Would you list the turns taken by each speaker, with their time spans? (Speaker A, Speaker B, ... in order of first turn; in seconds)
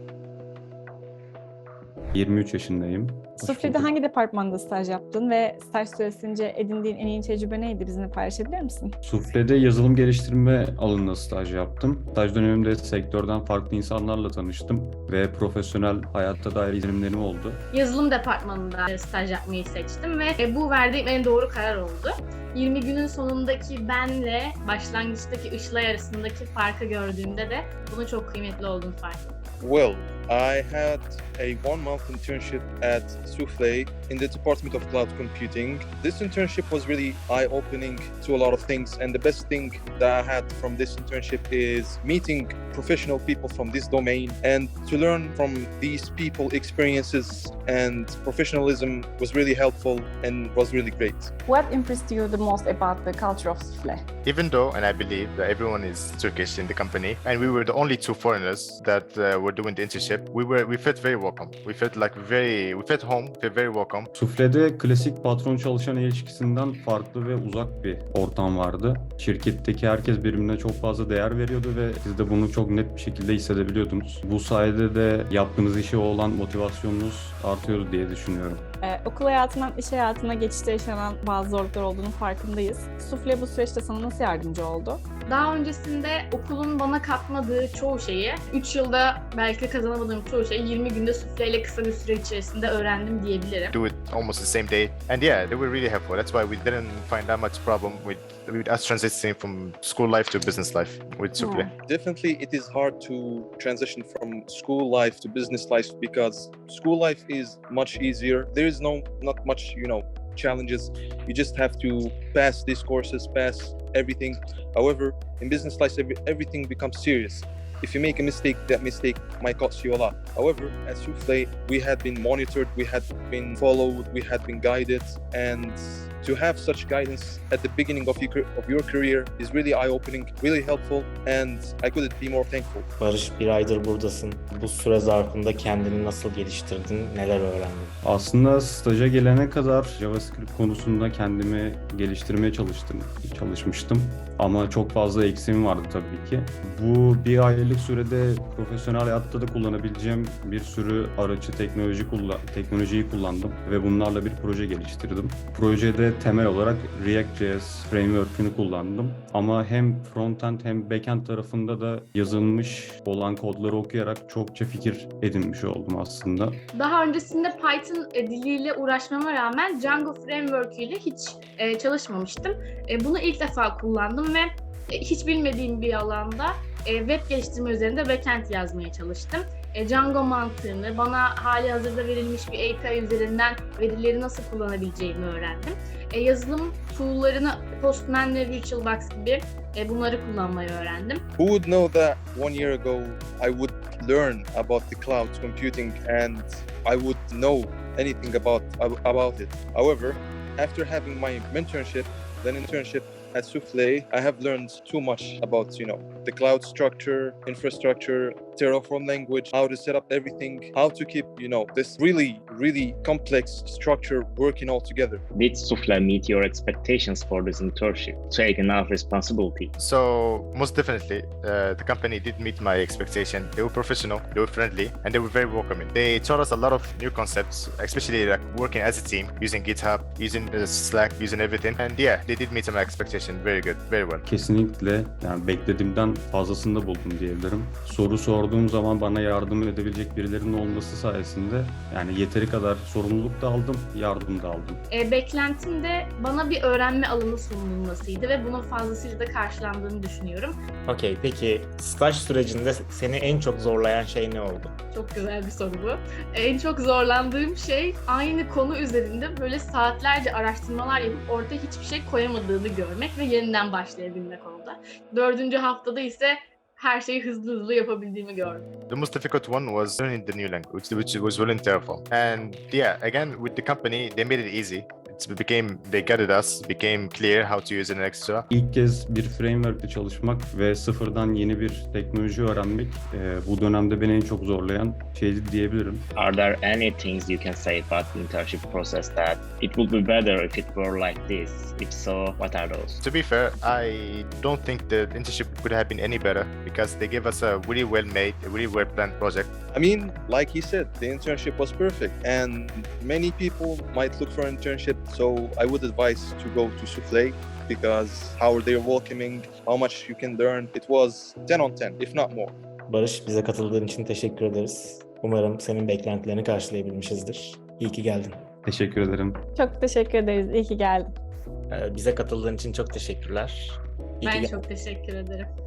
Speaker A: 2.1-3.9, 9.0-17.6, 64.2-78.6, 138.0-166.6, 234.2-244.8, 278.5-286.1, 318.6-319.4
Speaker B: 3.4-8.9, 51.5-54.0, 78.8-85.0, 101.4-101.7, 319.5-321.1
Speaker C: 17.7-29.3, 85.3-93.7, 166.7-191.2, 244.9-250.5, 254.9-268.6, 324.2-325.5
Speaker D: 29.6-51.3, 101.9-132.9, 191.4-215.2, 299.7-312.6
Speaker E: 54.2-64.1, 93.7-101.7, 219.8-234.2, 268.9-278.4, 293.0-299.5
Speaker F: 133.0-137.9, 250.8-254.7, 312.9-318.4, 321.7-324.6
Speaker G: 215.3-219.7, 286.1-293.0